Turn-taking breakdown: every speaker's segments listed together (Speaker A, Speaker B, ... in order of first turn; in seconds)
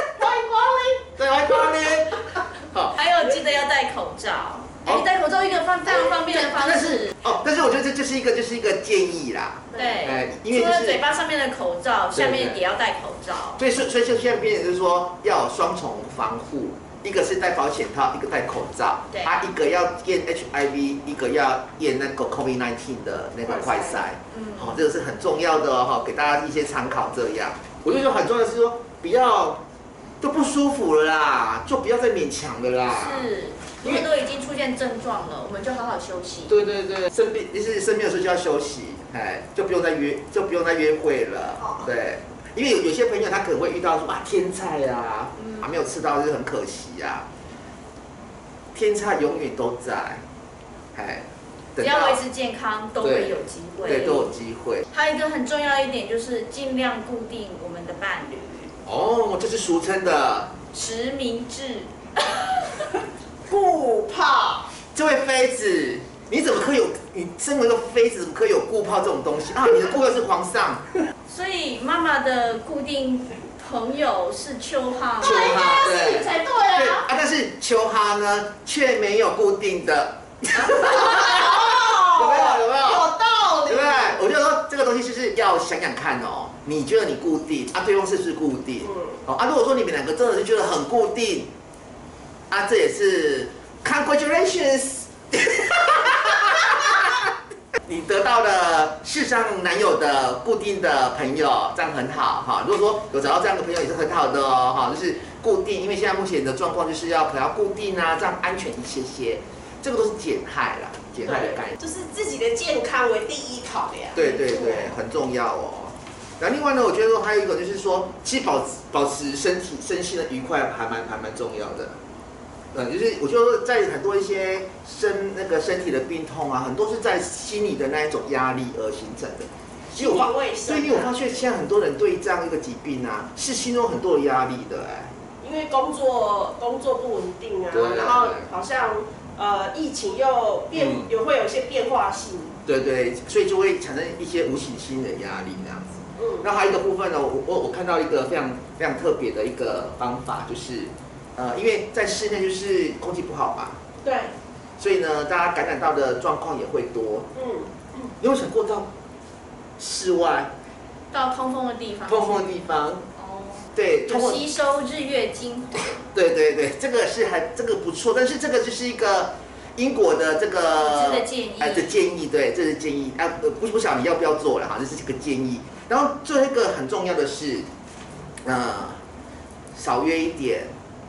Speaker A: 0.2-1.1, 23.4-24.0, 63.5-64.7, 75.2-77.1, 80.9-84.2, 111.3-115.0, 129.9-131.1, 135.4-142.6, 146.2-146.4, 154.0-154.3, 157.4-157.7
Speaker B: 1.2-3.0, 5.9-11.0, 12.2-12.6, 13.6-29.6, 30.2-33.3, 36.5-47.3, 48.7-50.2, 50.9-51.2, 51.8-52.2, 53.0-54.9, 58.9-60.5, 64.9-70.8, 75.2-83.1, 83.7-91.5, 92.5-97.2, 97.9-111.8, 114.1-122.0, 122.7-135.1, 137.7-138.4, 142.7-153.8, 154.8-157.3, 158.2-158.9, 159.8-160.5, 162.1-163.1, 163.8-164.4, 166.0-177.7, 178.4-179.0, 179.8-180.7
Speaker C: 2.9-7.2, 9.7-13.6, 32.9-36.5, 51.8-54.3, 54.9-58.7, 60.7-62.9, 71.3-75.7, 161.1-162.6, 163.2-166.0, 170.8-171.9